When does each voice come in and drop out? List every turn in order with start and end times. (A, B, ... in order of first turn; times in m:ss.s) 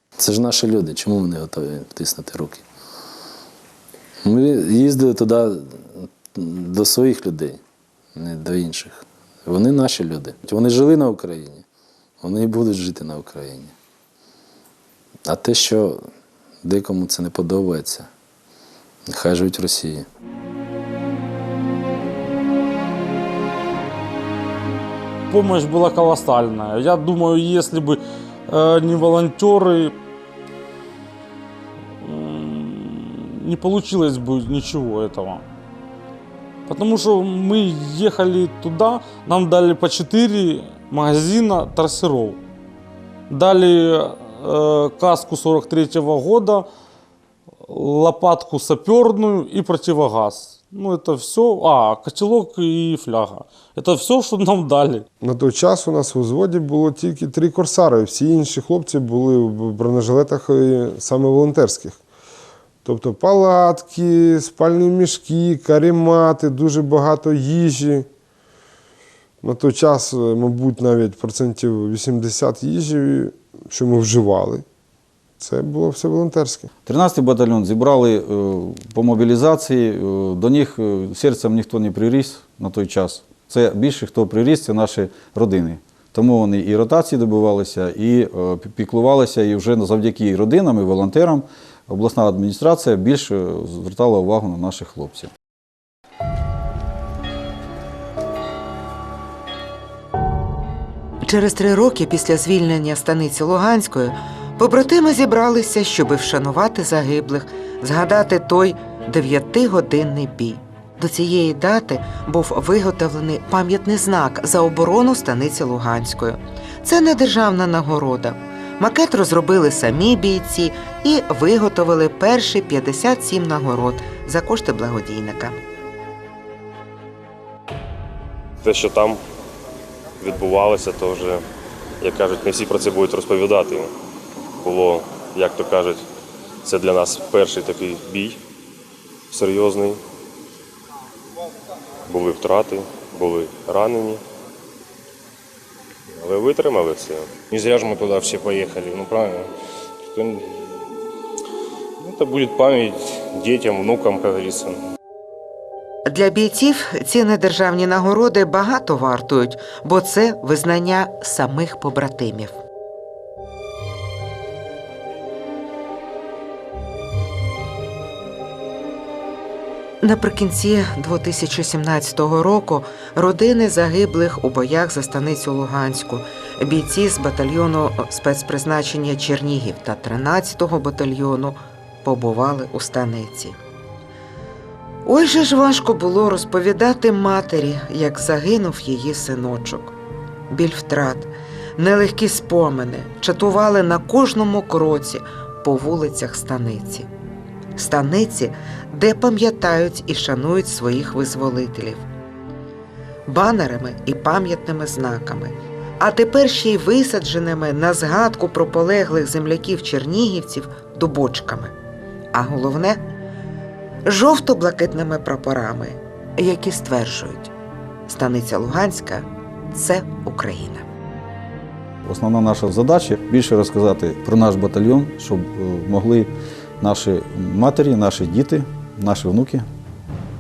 0:00.2-0:02.6 A
0:04.2-0:07.6 A
0:08.1-0:11.6 A
0:12.2-0:13.7 A
0:15.3-0:16.0 A
0:16.6-0:18.1 A
0:19.1-0:20.1 A
0:25.3-0:30.0 B
0:32.0-0:35.4 B
0:36.7-0:42.4 B
0:43.3-0:46.6 B
0:47.6-0:55.0 B
0:55.2-1:02.0 C
1:02.8-1:08.1 C
1:09.4-1:14.6 C
1:15.4-1:16.7 C
1:16.8-1:35.3 D
1:41.2-2:05.6 E
2:08.6-2:09.2 F
2:10.2-2:11.4 F
2:12.0-2:13.9 F
2:14.6-2:16.1 F
2:16.6-2:18.4 F
2:19.3-2:20.0 F
2:22.1-2:24.2 F
2:26.2-2:27.4 F
2:27.5-2:29.5 G
2:30.1-2:30.5 G
2:32.0-2:34.8 G
2:36.1-2:42.6 E
2:50.0-3:03.6 E
3:05.1-3:09.9 E
3:10.5-3:17.1 E
3:17.8-3:22.1 E
3:23.3-3:31.7 E
3:32.3-3:33.0 E
3:34.1-3:37.5 E
3:38.1-3:40.9 E
3:42.0-3:49.7 D